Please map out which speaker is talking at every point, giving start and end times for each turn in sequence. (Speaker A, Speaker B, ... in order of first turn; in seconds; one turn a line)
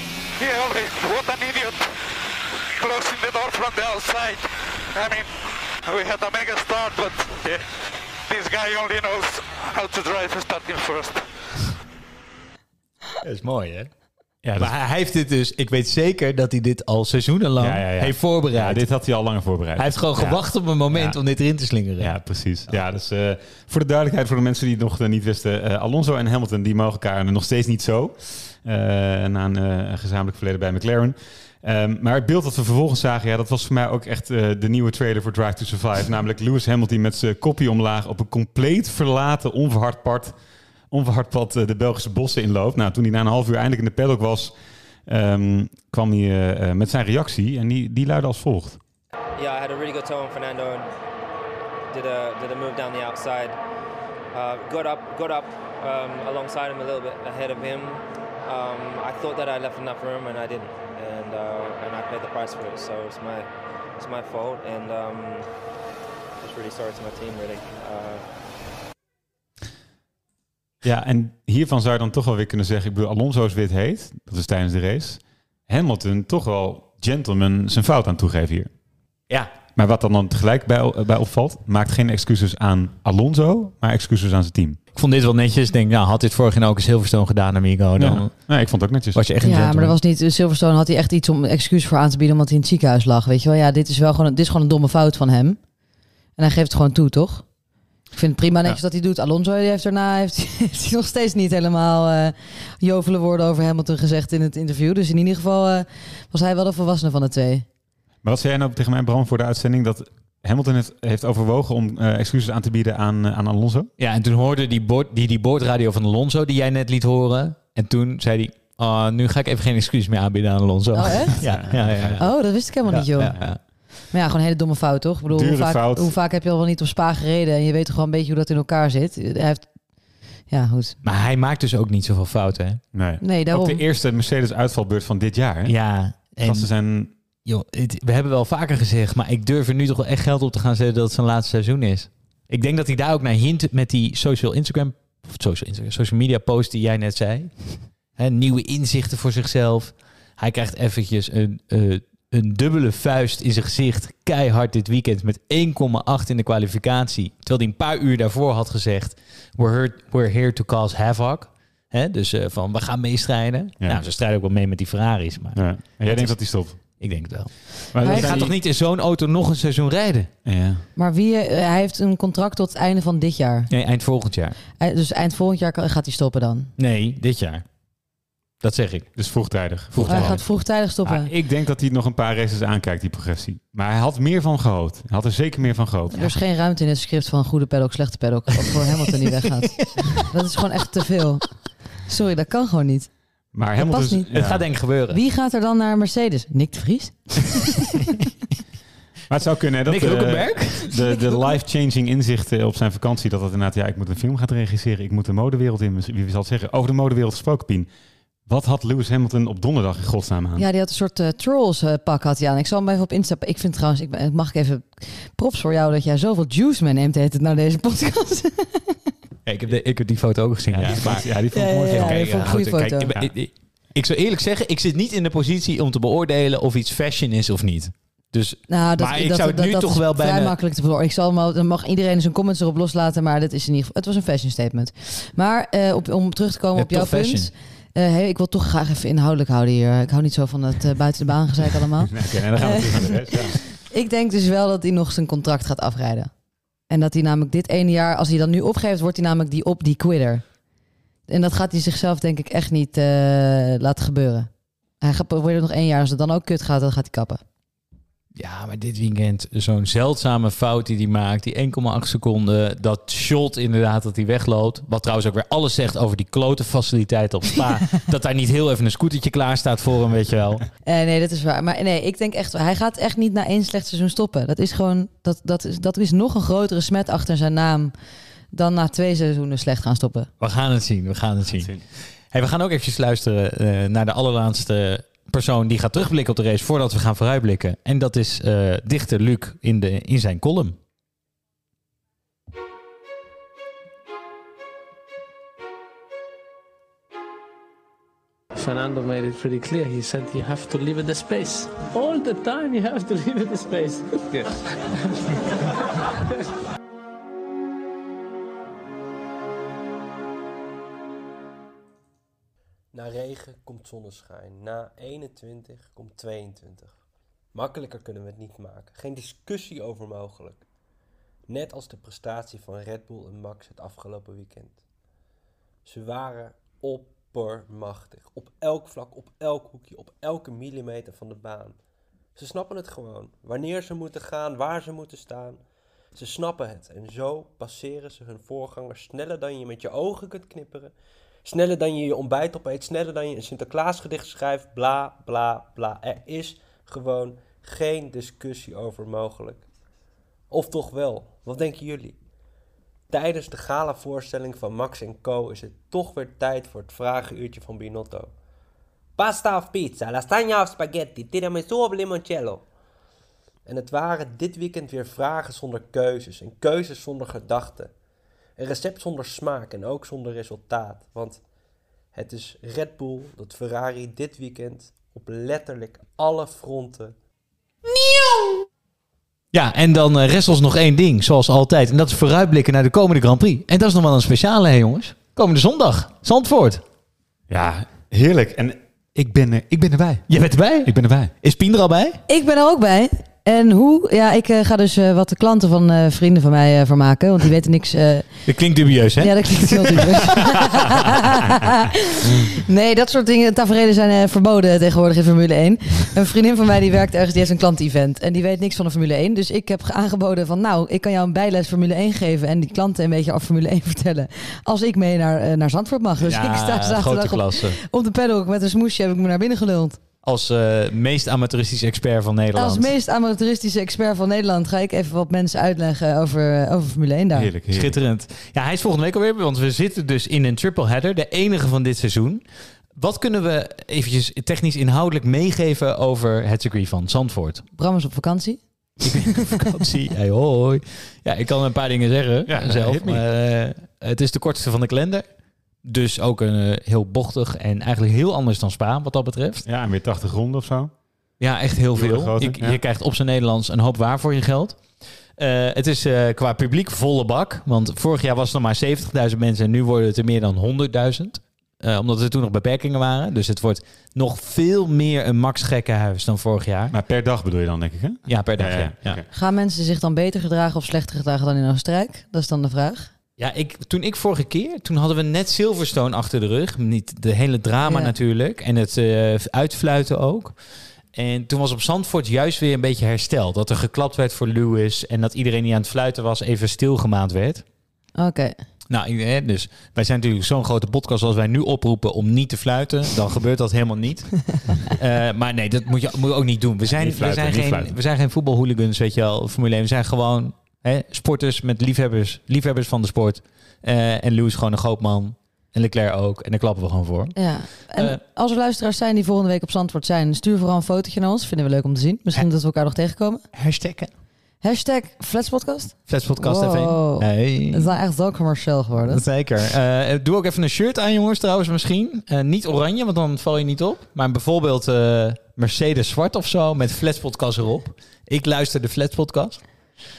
Speaker A: 0.4-11.6
Speaker B: 13.2-13.9
Speaker C: 14.4-14.7
Speaker B: 14.6-18.8
Speaker C: 17.6-21.2
Speaker B: 19.8-22.1
Speaker C: 22.0-40.3
Speaker C: 40.9-44.5
Speaker C: 45.1-48.8
Speaker D: 49.4-50.9
Speaker D: 51.9-53.6
Speaker D: 54.3-65.5
Speaker D: 66.4-68.2
Speaker C: 70.8-78.7
Speaker C: 79.8-84.8
Speaker B: 85.0-88.3
Speaker C: 88.0-89.2
Speaker B: 89.1-90.0
Speaker E: 89.4-95.6
Speaker E: 96.4-97.5
Speaker E: 98.1-107.7
Speaker C: 108.2-113.9
Speaker B: 114.0-123.6
Speaker E: 120.9-121.4
Speaker C: 121.4-123.5
Speaker E: 122.2-123.3
Speaker E: 124.1-129.7
Speaker C: 125.3-126.1
Speaker E: 130.5-131.0
Speaker B: 131.0-132.8
Speaker C: 132.9-137.1
Speaker E: 133.2-133.8
Speaker B: 135.7-136.7
Speaker B: 137.4-170.3
Speaker C: 165.6-167.0
Speaker C: 167.9-168.6
Speaker E: 168.0-168.5
Speaker C: 170.4-170.8
Speaker E: 171.0-173.7
Speaker B: 173.7-174.6
Speaker E: 174.8-176.7
Speaker B: 176.8-177.7
Speaker B: 178.6-179.2
Speaker C: 179.2-180.5
Speaker B: 179.9-180.4
Speaker E: 180.1-181.3
Speaker C: 181.0-186.4
Speaker E: 186.1-193.1
Speaker C: 193.5-194.7
Speaker E: 193.8-194.3
Speaker B: 194.3-195.2
Speaker E: 195.1-197.7
Speaker C: 199.3-207.9
Speaker B: 199.9-200.9
Speaker C: 208.5-210.7
Speaker E: 210.6-219.0
Speaker B: 219.5-230.5
Speaker C: 220.7-222.6
Speaker E: 221.3-223.1
Speaker E: 228.7-246.3
Speaker B: 236.8-237.5
Speaker C: 242.1-243.6
Speaker E: 246.9-250.4
Speaker E: 251.3-254.5
Speaker E: 255.0-257.4
Speaker B: 258.4-270.6
Speaker E: 270.9-277.9
Speaker E: 278.5-280.3
Speaker B: 280.4-290.8
Speaker C: 281.5-281.8
Speaker F: 298.6-304.6
Speaker G: 312.9-317.0
Speaker G: 317.5-320.6
Speaker G: 321.5-324.8
Speaker G: 325.9-331.8
Speaker G: 332.4-335.6
Speaker G: 336.1-349.7
Speaker G: 350.5-352.2
Speaker G: 353.1-358.3
Speaker G: 359.2-362.7
Speaker G: 363.6-367.9
Speaker G: 368.6-371.4
Speaker G: 372.1-377.1
Speaker B: 379.5-386.8
Speaker C: 387.5-390.3
Speaker B: 390.3-392.2
Speaker C: 390.8-391.3
Speaker E: 392.3-398.5
Speaker B: 398.5-400.1
Speaker E: 399.2-420.0
Speaker B: 416.2-417.8
Speaker B: 420.2-422.9
Speaker E: 422.6-427.5
Speaker C: 427.3-428.0
Speaker B: 427.7-432.4
Speaker B: 433.0-437.6
Speaker E: 437.8-439.2
Speaker B: 439.1-445.2
Speaker C: 442.5-443.2
Speaker B: 445.8-449.6
Speaker C: 449.6-450.9
Speaker B: 451.4-454.8
Speaker C: 451.9-452.8
Speaker B: 455.4-466.9
Speaker C: 466.9-469.3
Speaker B: 468.3-469.2
Speaker E: 469.3-473.1
Speaker B: 473.4-480.6
Speaker E: 477.9-478.1
Speaker B: 481.1-487.6
Speaker E: 488.2-488.6
Speaker B: 488.9-508.2
Speaker C: 496.9-498.0
Speaker E: 507.4-513.4
Speaker B: 513.5-514.1
Speaker E: 514.6-519.2
Speaker B: 516.1-517.9
Speaker B: 519.1-529.8